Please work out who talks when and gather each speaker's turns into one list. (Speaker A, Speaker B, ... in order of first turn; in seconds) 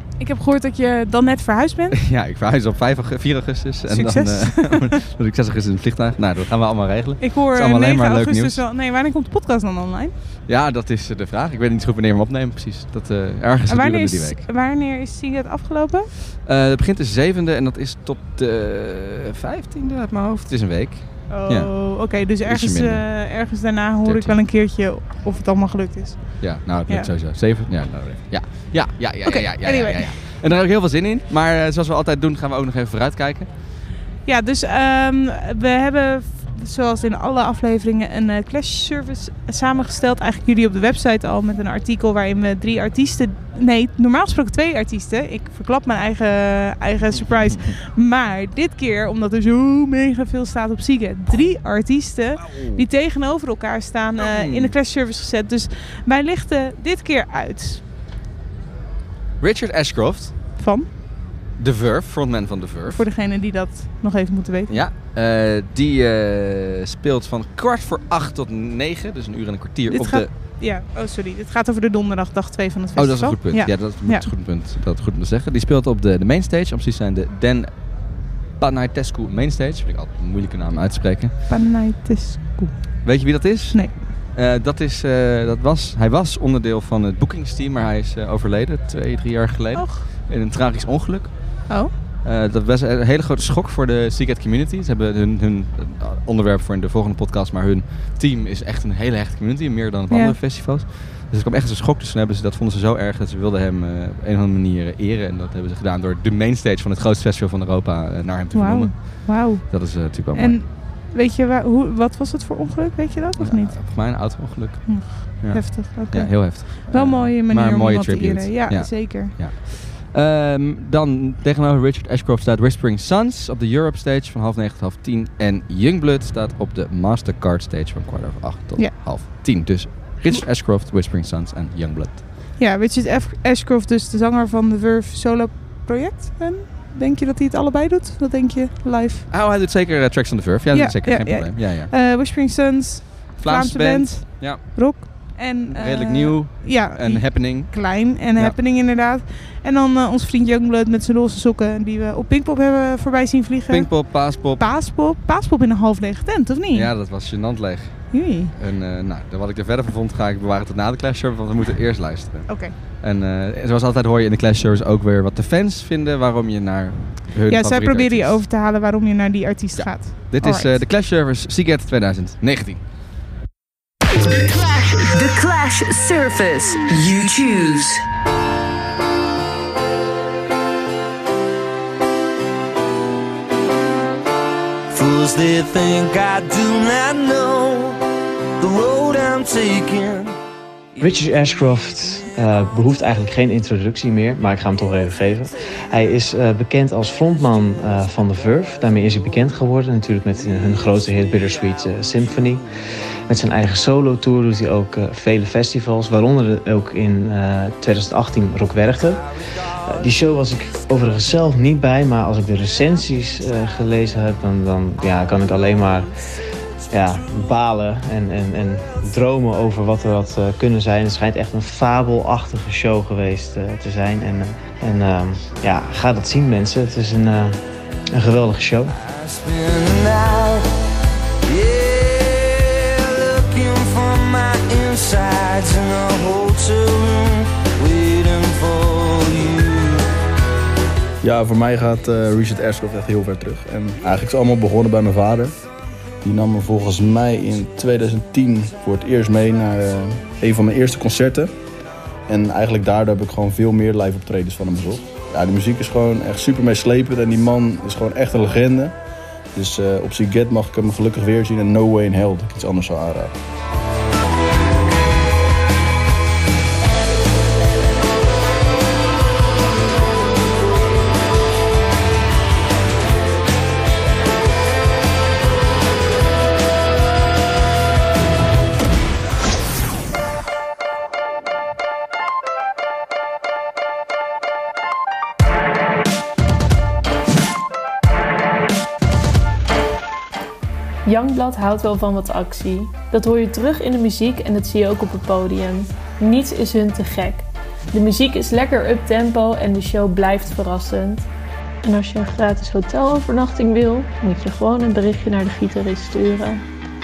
Speaker A: 0.2-2.0, 3.9-4.9, 7.2-10.1, 13.7-16.1, 21.3-27.1, 29.2-30.2, 34.3-57.8, 60.6-60.9, 62.9-64.8, 69.9-74.3, 81.5-84.0, 89.8-90.0, 100.1-100.4, 108.5-114.3, 114.9-119.3, 128.8-129.7, 132.6-139.3, 140.7-156.9, 158.1-158.5, 162.5-162.7, 167.5-170.8
Speaker B: 2.0-8.6, 10.5-14.4, 16.4-23.1, 24.1-24.4, 26.4-33.5, 52.5-52.8, 54.2-54.7, 59.4-60.3, 61.6-63.0, 64.7-70.3, 73.0-77.7, 78.6-81.3, 83.0-110.6, 113.4-132.2, 139.3-141.9, 143.4-148.6, 153.7-154.6, 156.7-168.4, 169.8-172.8
Speaker C: 174.2-178.0
Speaker D: 184.9-188.0, 188.6-190.4, 229.0-230.7, 231.5-240.1
Speaker E: 191.0-202.7, 203.3-216.1, 216.9-227.6, 228.1-228.9
Speaker F: 241.2-245.6, 246.2-251.5, 252.3-259.0, 259.5-263.4
Speaker G: 291.1-301.3, 301.8-306.6